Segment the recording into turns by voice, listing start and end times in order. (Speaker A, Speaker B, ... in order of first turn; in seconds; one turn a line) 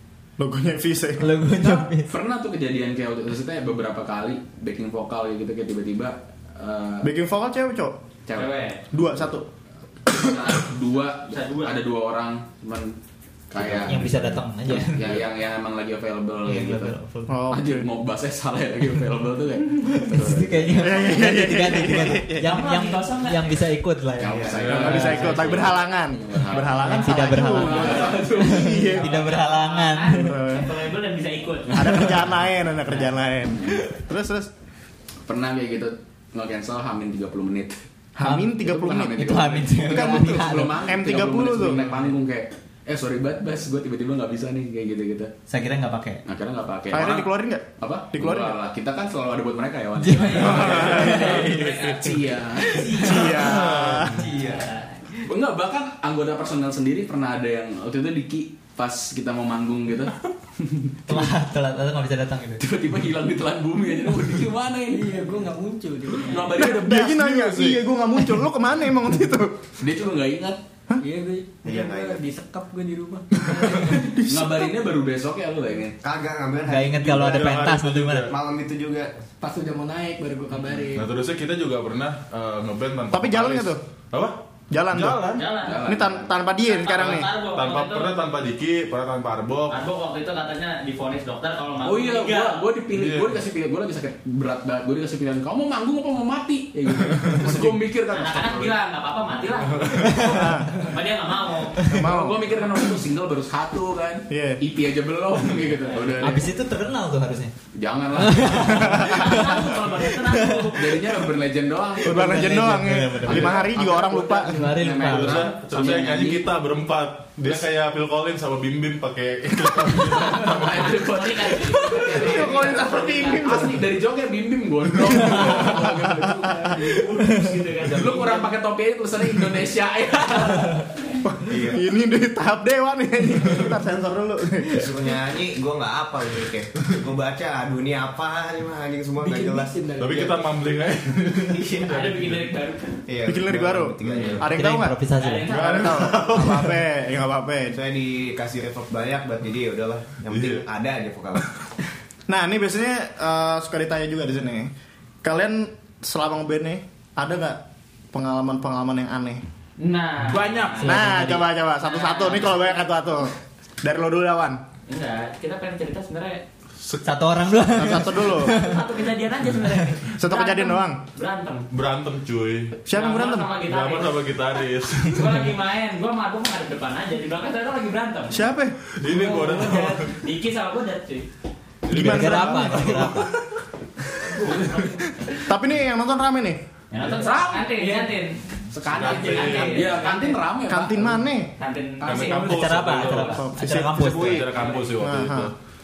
Speaker A: 0.4-1.4
Speaker B: 1.2-2.1
Speaker C: 2.1-7.1
Speaker A: 7.0-8.0
Speaker D: 8.3-8.8
Speaker A: 8.9-9.5
Speaker C: 10.1-12.9
Speaker D: 11.2-11.8
Speaker C: 13.5-14.1
Speaker E: 13.6-15.2
Speaker B: 13.8-15.0
Speaker C: 14.7-16.9
Speaker B: 16.4-17.3
Speaker A: 17.3-17.9
Speaker C: 17.5-21.1
Speaker B: 19.8-24.6
Speaker A: 20.8-22.6
Speaker D: 22.4-23.6
Speaker C: 24.2-29.0
Speaker F: 24.3-24.6
Speaker E: 24.5-25.3
Speaker A: 24.7-29.1
Speaker B: 26.8-30.4
Speaker D: 27.0-28.3
Speaker D: 28.9-32.1
Speaker A: 30.1-30.8
Speaker A: 31.7-34.5
Speaker B: 31.9-32.1
Speaker C: 35.2-37.8
Speaker A: 38.1-41.9
Speaker B: 38.2-38.6
Speaker C: 38.6-45.3
Speaker B: 39.1-40.8
Speaker B: 45.5-46.2
Speaker C: 46.2-53.3
Speaker A: 46.9-48.6
Speaker B: 50.0-51.6
Speaker D: 50.1-53.0
Speaker A: 50.4-51.8
Speaker A: 52.6-54.3
Speaker B: 52.7-54.6
Speaker E: 53.5-54.2
Speaker D: 54.2-55.0
Speaker C: 55.2-61.3
Speaker B: 61.1-62.6
Speaker C: 62.6-65.3
Speaker G: 64.9-66.7
Speaker C: 66.2-67.2
Speaker A: 66.5-69.6
Speaker E: 66.9-67.9
Speaker C: 69.8-70.6
Speaker G: 71.0-74.0
Speaker F: 71.6-72.2
Speaker C: 73.4-76.0
Speaker A: 73.8-74.7
Speaker F: 76.0-77.2
Speaker B: 76.7-78.3
Speaker E: 77.0-78.4
Speaker F: 78.3-79.1
Speaker G: 79.4-81.1
Speaker E: 80.9-84.4
Speaker A: 83.1-83.8
Speaker A: 84.7-87.3
Speaker E: 84.9-85.5
Speaker D: 85.3-85.9
Speaker C: 85.6-86.3
Speaker D: 86.6-88.1
Speaker E: 87.4-89.8
Speaker D: 89.7-92.7
Speaker C: 91.8-98.8
Speaker E: 92.9-93.4
Speaker E: 97.1-97.7
Speaker D: 98.1-101.9
Speaker E: 99.6-100.3
Speaker B: 100.0-100.7
Speaker A: 100.2-100.9
Speaker A: 101.8-102.5
Speaker C: 101.9-106.5
Speaker A: 104.3-104.6
Speaker D: 105.9-106.2
Speaker B: 106.2-107.5
Speaker C: 107.8-109.4
Speaker B: 108.2-109.5
Speaker D: 108.9-111.2
Speaker B: 110.1-110.7
Speaker C: 110.7-116.5
Speaker A: 112.0-114.6
Speaker B: 112.1-115.5
Speaker E: 114.9-121.0
Speaker C: 119.9-126.8
Speaker D: 120.7-123.8
Speaker A: 122.1-123.8
Speaker A: 125.3-126.2
Speaker D: 126.7-128.5
Speaker C: 127.8-130.8
Speaker D: 130.9-131.2
Speaker A: 131.2-135.0
Speaker F: 131.5-131.8
Speaker F: 134.7-139.7
Speaker G: 139.2-140.7
Speaker E: 140.0-142.5
Speaker D: 141.6-143.0
Speaker F: 143.1-144.4
Speaker A: 143.2-147.8
Speaker E: 144.1-144.4
Speaker B: 144.5-145.6
Speaker D: 145.2-146.3
Speaker F: 147.7-151.4
Speaker E: 150.3-150.6
Speaker A: 152.3-154.7
Speaker A: 155.2-159.4
Speaker D: 159.8-163.0
Speaker E: 160.3-160.8
Speaker B: 160.8-161.5
Speaker A: 160.8-164.6
Speaker D: 164.9-166.4
Speaker E: 166.8-167.1
Speaker B: 167.0-168.8
Speaker A: 167.8-168.6
Speaker D: 168.3-171.7
Speaker A: 170.2-171.0
Speaker E: 171.7-172.9
Speaker A: 172.9-173.6
Speaker D: 172.9-174.3
Speaker E: 173.6-175.5
Speaker D: 175.1-178.4
Speaker A: 178.3-178.8
Speaker E: 178.9-180.2
Speaker G: 179.1-179.9
Speaker D: 179.2-181.3
Speaker A: 181.9-183.3
Speaker E: 181.9-183.4
Speaker B: 181.9-183.3
Speaker D: 184.3-185.1
Speaker E: 184.6-184.8
Speaker A: 185.4-186.6
Speaker D: 186.9-188.4
Speaker C: 187.0-188.1
Speaker C: 188.7-191.3
Speaker E: 188.8-189.9
Speaker D: 188.9-190.3
Speaker A: 190.7-191.5
Speaker D: 191.6-193.4
Speaker G: 192.0-192.7
Speaker E: 192.0-195.5
Speaker B: 192.4-194.5
Speaker A: 193.3-194.4
Speaker D: 194.5-195.0
Speaker A: 195.0-195.5